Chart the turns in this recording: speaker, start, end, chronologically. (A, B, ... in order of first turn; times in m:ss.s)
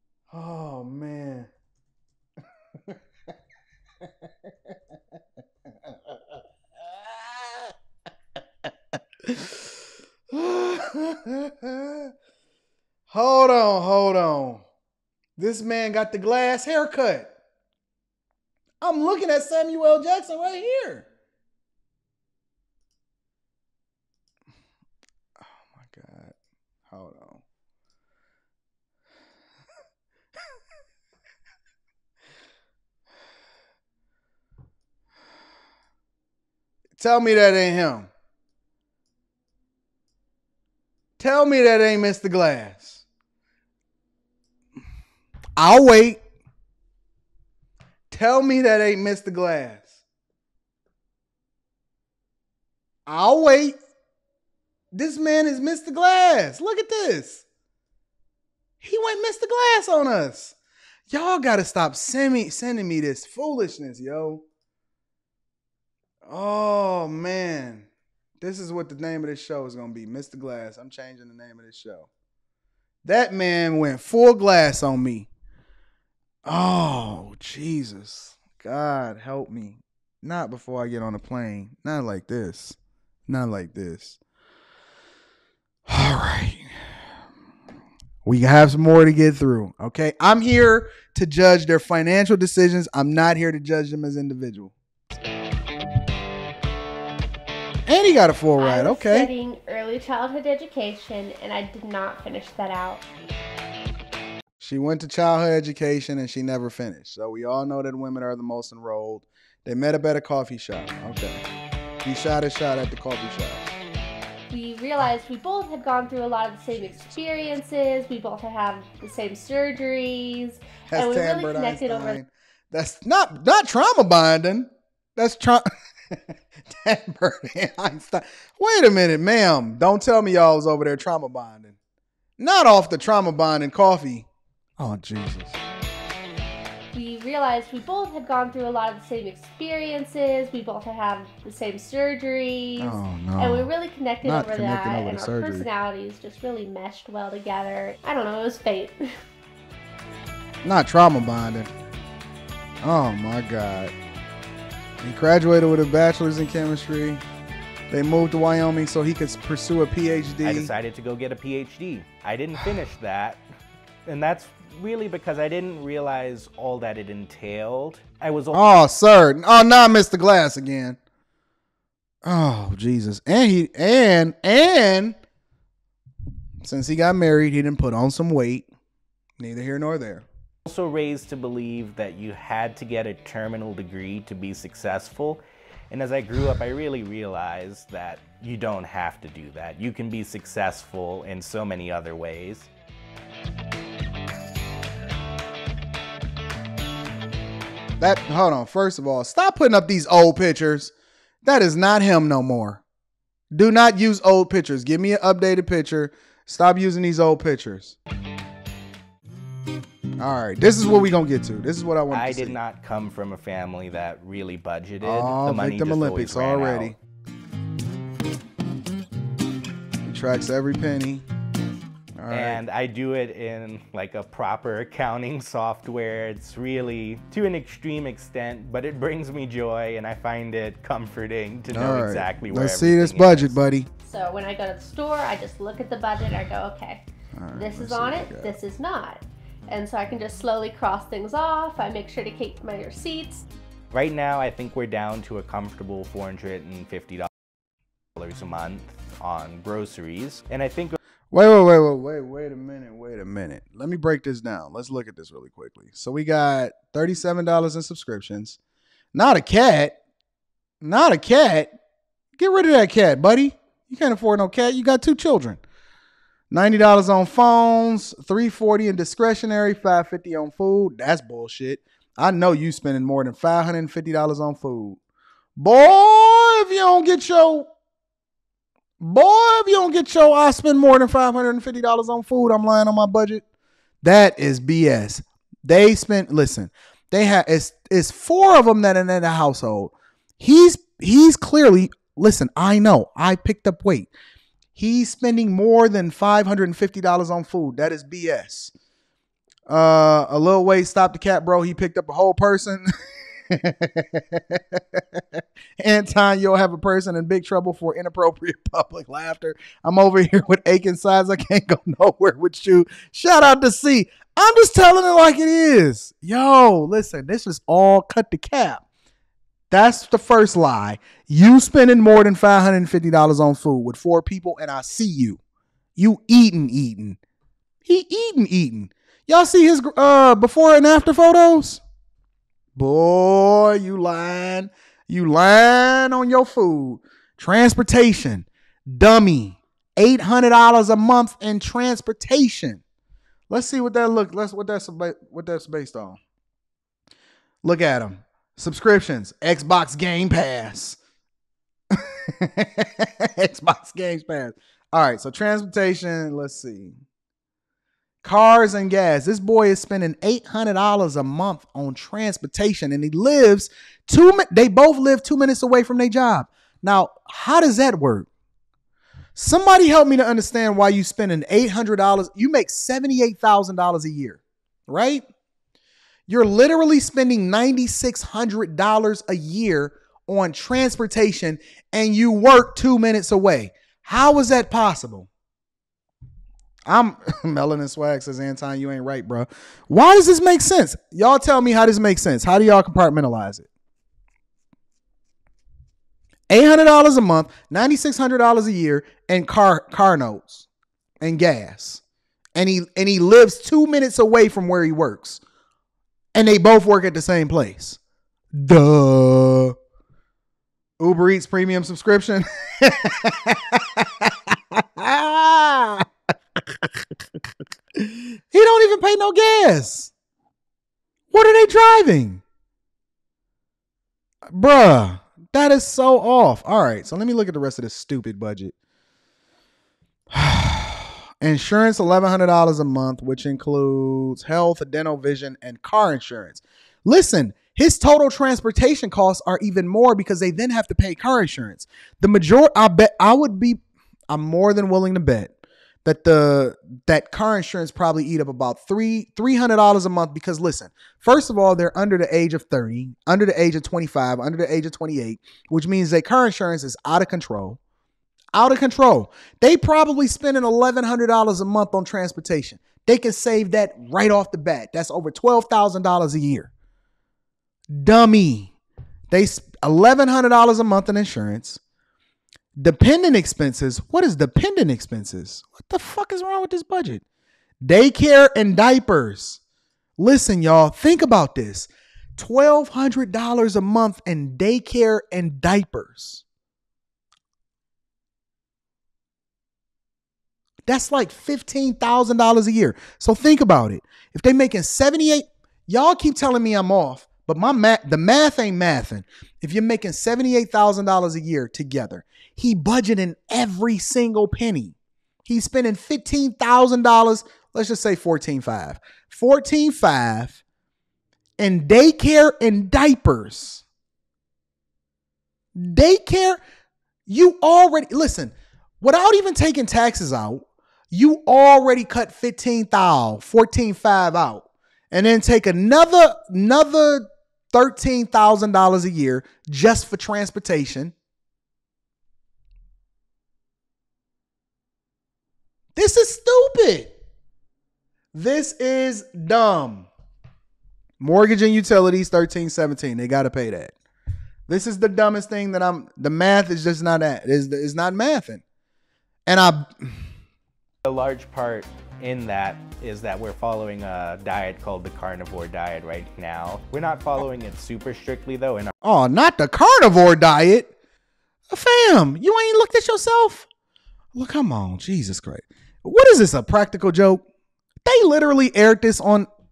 0:00.3-0:01.5 A
0:04.0-0:04.8 A
0:05.9-0:07.7 A
0:09.2-0:09.7 A
0:10.3-0:12.1 A
0:13.1-0:14.6 A
0:15.4-0:17.3 A
0:18.8-0:21.1 A
0:25.8-0:26.3 A
0:26.9-0:27.4 A
0:37.0-0:38.1 A
0:41.2-0:43.0 A
0:45.6-0:46.2 A
0:48.1-0:50.0 A
0:53.1-0:53.8 A
0:54.9-0:57.5 A
0:58.8-1:00.6 A
1:01.1-1:04.4 A
1:06.3-1:07.9 A
1:08.4-1:12.1 A
1:13.0-1:15.3 A
1:16.5-1:24.2 A
1:25.9-1:26.7 A
1:28.2-1:34.7 A
1:37.9-1:39.3 A
1:38.6-1:43.0 B
1:44.6-1:51.4 A
1:52.0-1:53.6 A
1:54.5-2:02.2 B
2:00.9-2:11.8 A
2:12.4-2:14.3 A
2:14.8-2:15.6 A
2:16.9-2:29.1 B
2:22.8-2:23.7 A
2:24.2-2:25.7 A
2:30.6-2:31.7 A
2:32.8-2:33.9 A
2:35.0-2:37.2 A
2:37.9-2:40.7 A
2:40.4-2:43.4 C
2:44.1-2:48.6 C
2:48.5-2:51.0 A
2:52.2-2:55.2 A
2:56.6-2:58.7 A
2:59.4-3:00.3 A
3:00.7-3:12.7 C
3:18.0-3:20.9 A
3:21.4-3:22.8 A
3:23.5-3:28.0 A
3:30.2-3:32.6 A
3:32.1-3:37.0 C
3:35.0-3:37.0 A
3:40.0-3:41.2 A
3:42.2-3:42.6 A
3:42.3-3:53.6 C
3:51.7-3:53.9 A
3:54.0-3:57.0 B
3:57.4-3:58.5 A
3:57.6-4:03.4 B
4:03.9-4:07.3 C
4:08.2-4:11.0 C
4:11.3-4:18.6 A
4:19.1-4:20.0 A
4:20.8-4:21.7 A
4:22.4-4:25.6 A
4:26.5-4:35.0 A
4:35.6-4:37.7 A
4:39.0-4:43.4 A
4:44.0-4:54.1 A
4:54.8-4:58.7 A
4:59.7-5:02.9 A
5:03.5-5:18.8 A
5:19.7-5:25.4 A
5:26.0-5:27.2 A
5:27.9-5:31.8 A
5:32.8-5:42.8 A
5:43.5-5:46.2 A
5:47.6-5:51.0 A
5:51.9-5:57.0 A
5:58.2-6:08.3 A
6:09.4-6:15.3 A
6:16.3-6:25.3 A
6:26.9-6:33.7 A
6:36.5-6:40.7 A
6:41.2-6:42.0 A
6:42.6-6:45.4 A
6:46.3-6:48.0 A
6:48.5-6:49.8 A
6:51.0-6:56.1 A
6:56.6-6:57.0 A
6:58.0-7:00.1 A
7:01.3-7:02.4 A
7:04.5-7:08.7 A
7:10.3-7:25.5 A
7:26.0-7:37.8 A
7:38.5-7:46.7 A
7:47.9-7:48.7 A
7:49.3-7:51.8 A
7:52.8-7:57.2 A
7:57.8-7:59.6 A
8:00.2-8:06.4 A
8:10.9-8:25.0 A
8:25.5-8:30.6 A
8:31.6-8:33.8 A
8:35.8-8:36.6 A
8:37.3-8:51.1 A
8:56.0-8:57.1 A
8:58.3-9:00.1 A
9:01.2-9:04.0 A
9:04.7-9:08.6 A
9:09.5-9:10.3 A
9:11.1-9:18.9 C
9:19.0-9:20.9 A
9:21.7-9:23.7 A
9:24.4-9:27.4 A
9:28.0-9:29.5 A